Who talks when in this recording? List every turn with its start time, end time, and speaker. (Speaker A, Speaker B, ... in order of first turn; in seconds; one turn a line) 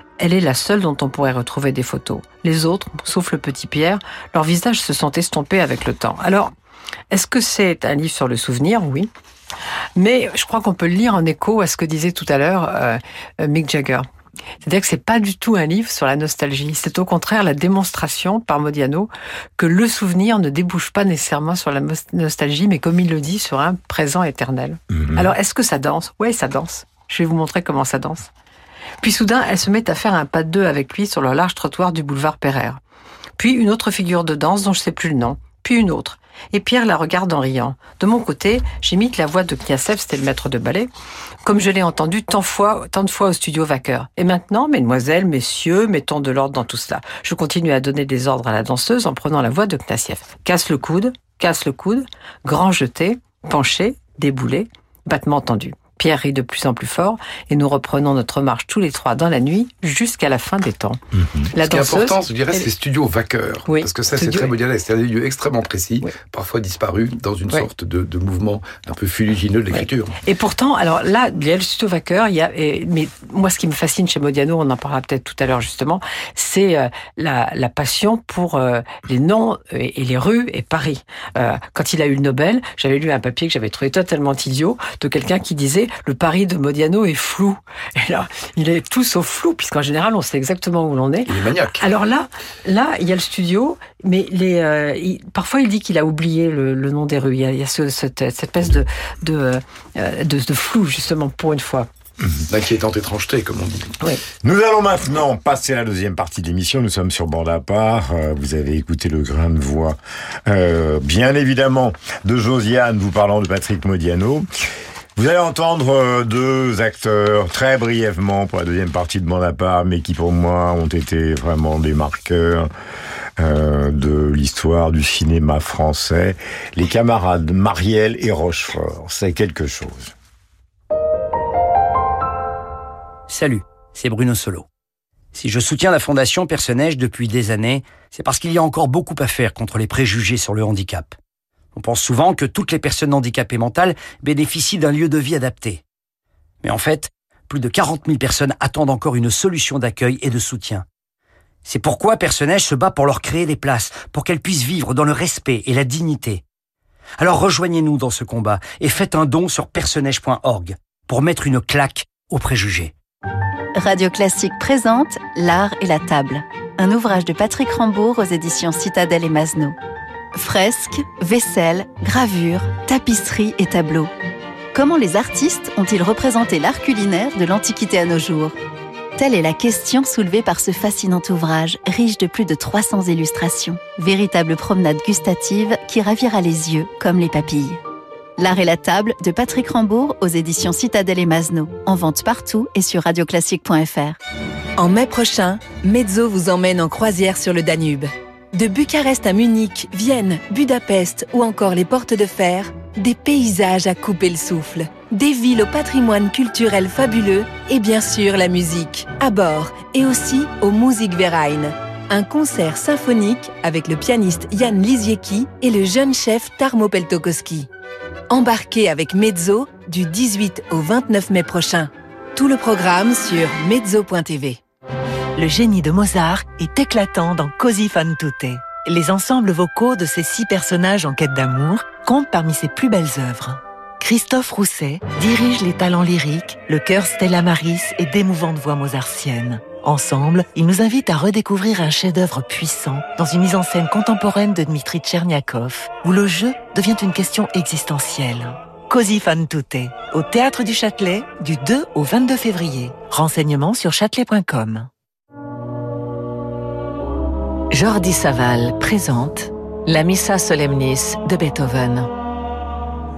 Speaker A: 0.2-6.5
Speaker A: 7.1-9.1
Speaker A: 10.0-14.1
Speaker A: 14.6-28.3
Speaker B: 24.9-25.3
Speaker A: 29.0-32.8
Speaker A: 33.4-40.9
Speaker A: 41.4-61.0
Speaker B: 61.1-61.5
Speaker A: 61.5-62.6
Speaker C: 61.6-70.1
Speaker A: 63.7-64.5
Speaker A: 70.2-101.9
Speaker C: 91.2-91.8
Speaker C: 102.5-104.0
Speaker B: 104.4-114.5
Speaker B: 115.2-122.7
Speaker B: 123.4-130.1
Speaker D: 133.3-134.7
Speaker D: 135.3-141.1
Speaker D: 141.7-145.8
Speaker D: 146.6-150.8
Speaker D: 151.6-156.4
Speaker D: 157.2-162.9
Speaker E: 163.8-169.8
Speaker E: 170.3-174.1
Speaker E: 174.7-178.6
Speaker E: 179.2-187.8
Speaker E: 188.4-194.2
Speaker F: 194.8-217.7
Speaker F: 218.3-224.6
Speaker G: 225.4-233.4
Speaker G: 234.2-234.9
Speaker G: 235.7-254.8
Speaker F: 257.7-262.1